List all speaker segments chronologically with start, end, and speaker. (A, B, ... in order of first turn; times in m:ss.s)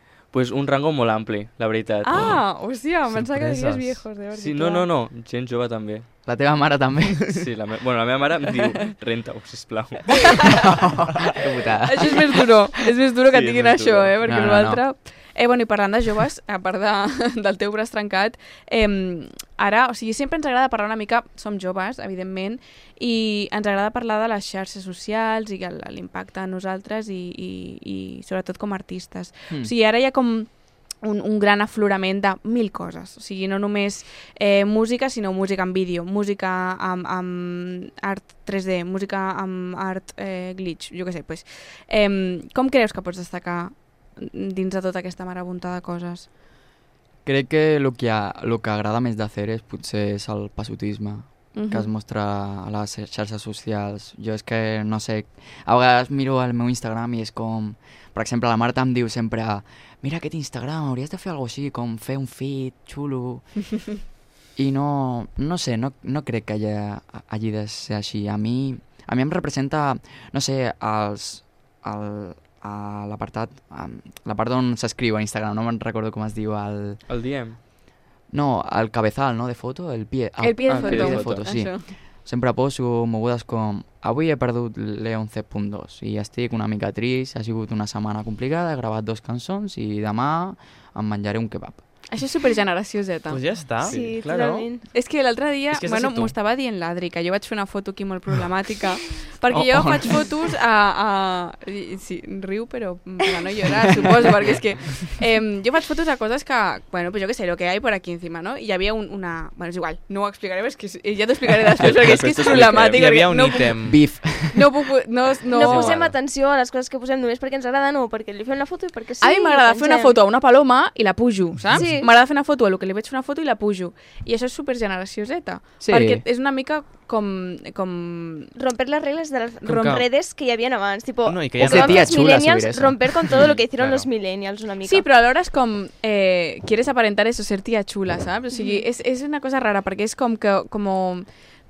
0:00.3-0:02.3 A
0:02.0-0:04.9 B
0:02.1-0:02.4 C
0:03.1-0:04.0 C
0:04.3-0:06.1 A
0:06.2-0:07.2 D
0:07.3-0:10.6 A
0:10.6-0:12.4 D
0:11.8-0:30.5 B
0:13.3-0:14.1 A
0:14.2-0:14.8 D
0:31.0-0:46.3 B
0:47.2-1:03.5 D
0:51.5-0:51.9 B
1:04.6-1:17.0 D
1:17.1-1:17.6 A
1:18.3-1:31.8 D
1:20.4-1:21.9 B
1:20.7-1:21.5 A
1:32.1-1:33.4 B
1:33.3-1:34.7 C
1:33.8-1:34.9 E
1:33.8-1:34.2 A
1:34.9-1:56.0 B
1:35.7-1:36.3 C
1:39.5-1:40.1 D
1:51.8-1:53.0 A
1:52.6-1:54.1 C
1:53.8-1:54.7 D
1:55.5-2:00.2 E
1:55.8-1:56.1 A
1:59.2-2:08.5 B
2:01.7-2:02.1 E
2:05.8-2:06.2 D
2:08.5-2:15.0 E
2:09.6-2:10.0 C
2:11.2-2:12.2 C
2:11.6-2:13.0 D
2:13.3-2:13.6 A
2:13.8-2:14.1 C
2:14.8-2:21.2 B
2:18.5-2:18.8 E